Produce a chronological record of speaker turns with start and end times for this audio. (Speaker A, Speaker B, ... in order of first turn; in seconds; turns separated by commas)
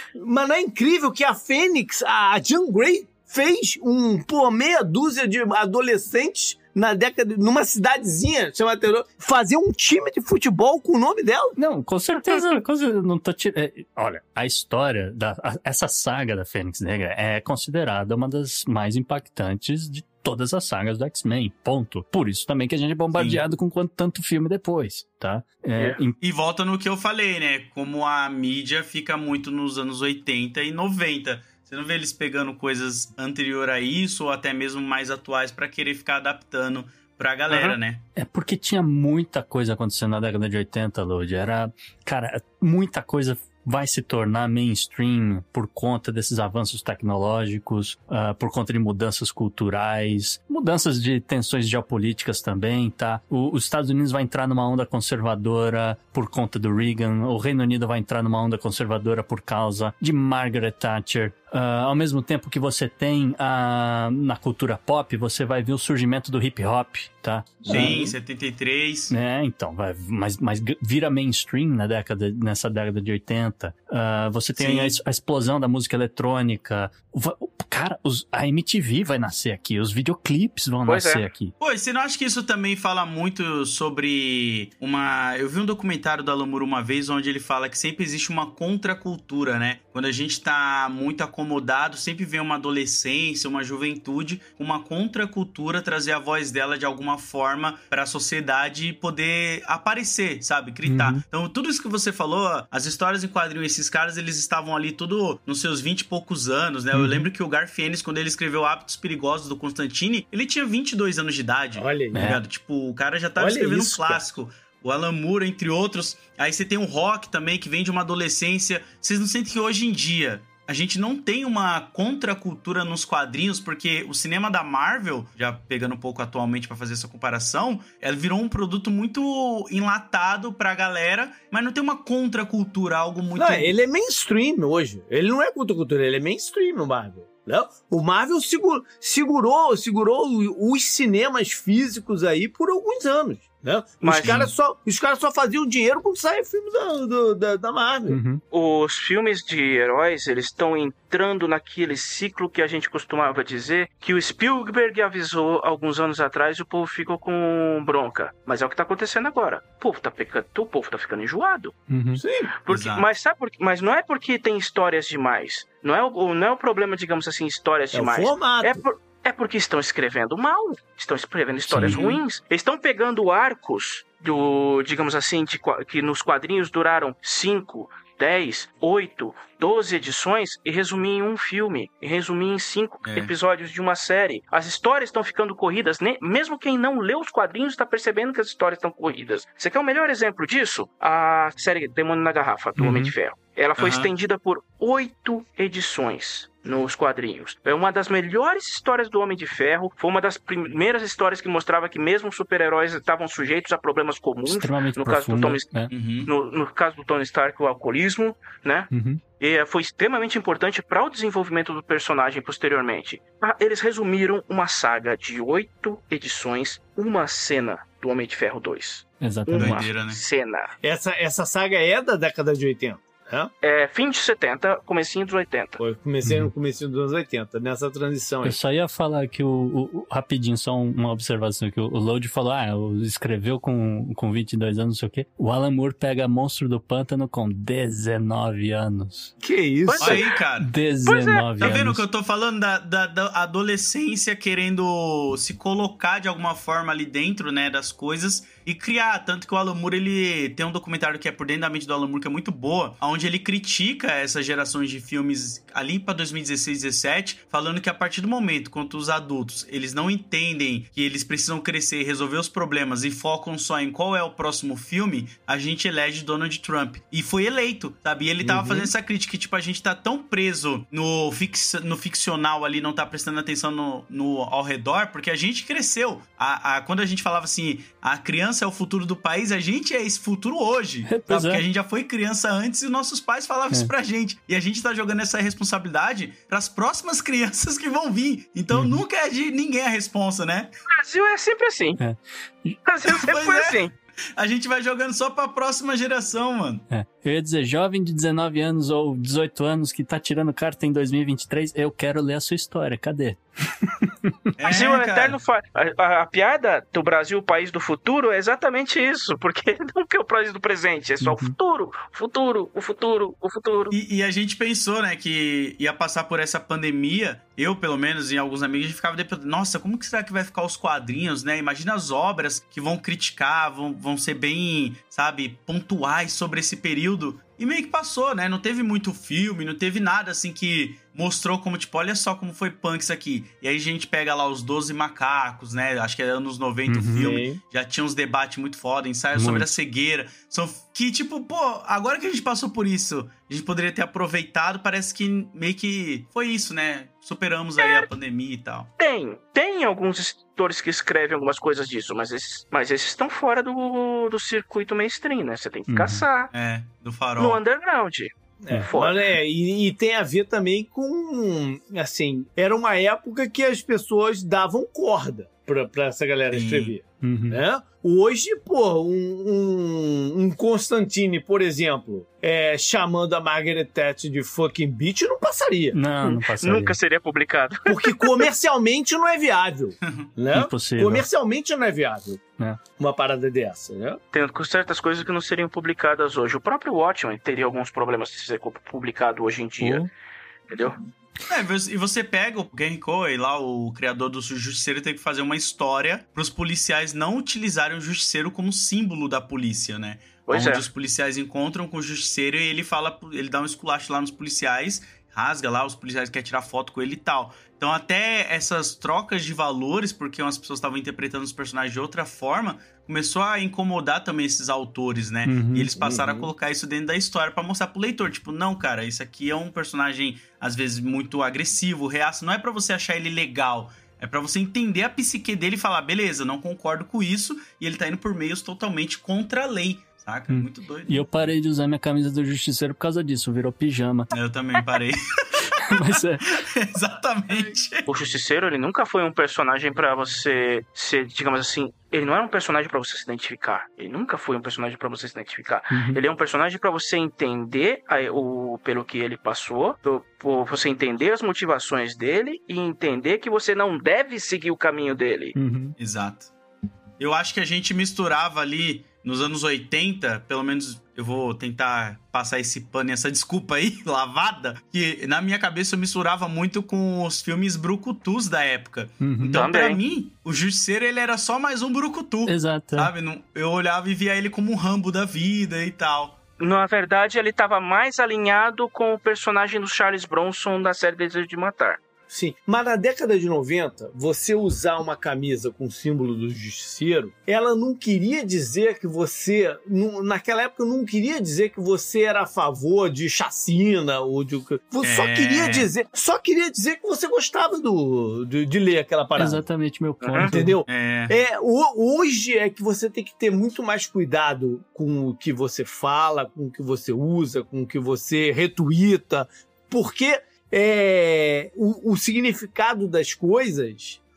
Speaker A: 0.1-11.6, Speaker B: 11.6-26.2, Speaker C: 23.1-23.4, Speaker C: 26.2-38.0, Speaker D: 37.5-37.8, Speaker B: 38.2-68.0, Speaker A: 67.7-68.1, Speaker C: 67.7-69.1, Speaker B: 69.1-81.5, Speaker C: 74.6-75.0, Speaker D: 80.9-81.2, Speaker C: 81.6-133.7, Speaker B: 100.9-101.2, Speaker B: 106.9-107.3, Speaker A: 111.8-112.3, Speaker B: 112.1-112.4, Speaker A: 113.4-114.2, Speaker A: 133.4-148.2, Speaker D: 144.0-144.5, Speaker C: 144.2-144.5, Speaker B: 148.1-148.4, Speaker D: 148.5-161.7, Speaker B: 161.9-162.2, Speaker A: 162.2-162.5, Speaker D: 162.6-205.7, Speaker C: 162.7-163.1, Speaker A: 167.9-168.8, Speaker B: 171.7-172.2, Speaker C: 183.1-183.3, Speaker B: 192.8-193.1, Speaker C: 193.8-194.1, Speaker B: 204.4-205.9, Speaker C: 205.9-206.3, Speaker D: 206.2-220.7, Speaker B: 208.9-209.2, Speaker B: 219.2-219.9, Speaker C: 219.6-220.2, Speaker A: 220.8-223.5, Speaker D: 223.6-225.8, Speaker A: 225.8-228.6, Speaker B: 226.2-226.5, Speaker B: 228.4-239.3, Speaker A: 239.4-240.3, Speaker D: 239.9-240.3, Speaker C: 240.0-240.7, Speaker B: 240.6-242.0, Speaker D: 241.1-241.7, Speaker C: 241.6-290.7, Speaker A: 268.4-268.9, Speaker B: 281.1-281.6, Speaker B: 288.7-289.0, Speaker D: 290.9-292.0, Speaker B: 292.0-292.8, Speaker D: 292.9-293.9, Speaker C: 293.1-293.8, Speaker C: 294.4-296.8, Speaker B: 296.9-304.4, Speaker C: 304.6-305.4, Speaker D: 304.7-313.9, Speaker B: 311.2-311.6, Speaker C: 313.9-348.9, Speaker B: 336.9-337.4, Speaker A: 337.2-337.6, Speaker B: 339.4-339.8, Speaker D: 347.8-348.1, Speaker D: 349.0-356.5, Speaker B: 355.9-356.2, Speaker C: 356.5-357.6, Speaker D: 357.4-359.2, Speaker A: 358.6-376.0, Speaker C: 366.5-366.9, Speaker B: 367.2-367.6, Speaker B: 375.9-377.0, Speaker D: 376.2-378.3, Speaker A: 377.9-382.4, Speaker C: 380.0-380.3, Speaker B: 380.5-381.3, Speaker A: 383.0-384.2, Speaker D: 384.3-390.1, Speaker B: 389.8-390.1, Speaker D: 390.7-391.0, Speaker C: 391.5-431.3, Speaker D: 400.5-400.9, Speaker B: 415.5-415.9, Speaker A: 416.0-416.5, Speaker B: 430.5-434.3, Speaker C: 434.3-438.1, Speaker B: 435.9-436.5, Speaker D: 438.1-455.6, Speaker B: 445.9-446.2, Speaker B: 455.6-455.9, Speaker C: 456.0-456.5, Speaker C: 457.2-476.4, Speaker B: 469.2-469.6, Speaker D: 469.5-470.0, Speaker B: 472.5-473.1, Speaker D: 476.6-482.0, Speaker A: 482.3-499.6, Speaker C: 495.0-495.9, Speaker B: 499.4-500.8, Speaker D: 500.2-500.5, Speaker A: 500.4-514.2, Speaker C: 500.9-501.4